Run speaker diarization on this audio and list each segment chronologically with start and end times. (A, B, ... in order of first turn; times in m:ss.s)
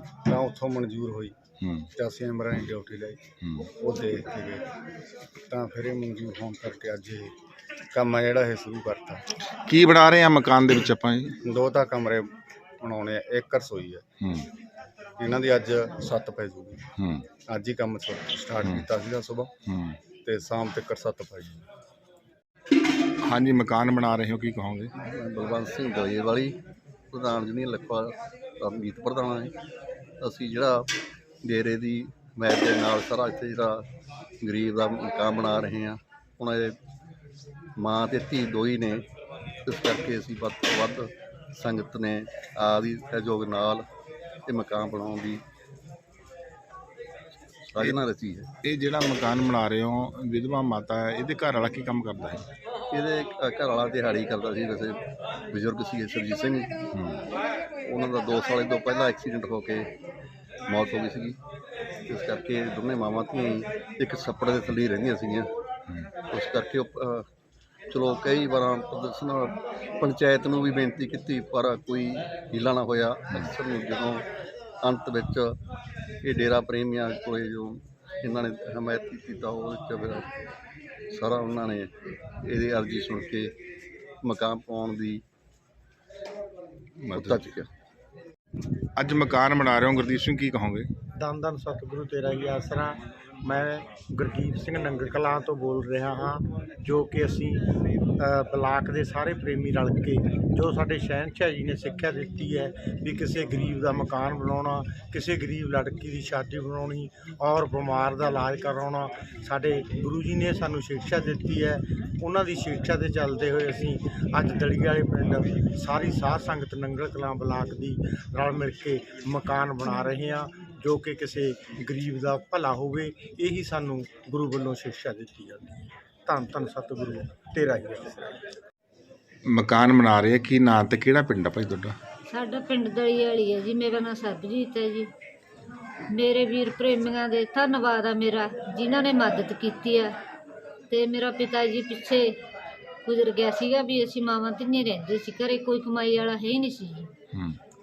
0:00.2-0:01.4 A
0:01.6-0:01.9 B
0:02.0-0:04.6 A
0:03.4-0:03.7 B
0:05.5-0:07.3 A
0:07.9-0:09.2 A
0:09.7-0:11.3 B
0:11.4-0:12.3 A
0:12.8-0:14.0 A
0:14.2-0:14.4 B
0:15.2-0:16.8 A
0:17.0-0:17.2 B
0:17.5-0:19.5 A
0:19.7-0:20.0 B
0:20.2-0:21.6 A
0:23.2-0:24.9 B
0:25.0-0:26.6 C
0:27.1-0:29.5 C
0:30.2-0:30.9 C
0:31.4-0:33.8 C
0:34.4-0:36.8 C
0:37.8-0:39.0 C
0:39.6-0:43.8 C
0:44.4-0:45.4 C
0:47.6-0:48.5 C
0:48.6-0:52.4 B
0:52.9-0:56.7 C
0:56.9-0:57.2 B
0:57.8-0:59.9 C
1:00.7-1:01.4 C
1:02.1-1:05.5 C
1:06.2-1:07.2 C
1:07.9-1:14.2 C
1:14.8-1:15.6 C
1:16.2-1:20.3 C
1:21.1-1:21.9 C
1:22.4-1:23.5 C
1:24.2-1:25.2 C
1:27.0-1:27.4 B
1:27.1-1:27.7 C
1:29.0-1:30.9 B
1:31.1-1:37.6 D
1:38.2-2:05.8 D
2:06.2-2:08.4 D
2:09.5-2:12.0 B
2:12.3-2:15.1 E
2:16.1-2:20.1 E
2:20.9-2:22.4 E
2:23.0-2:27.1 E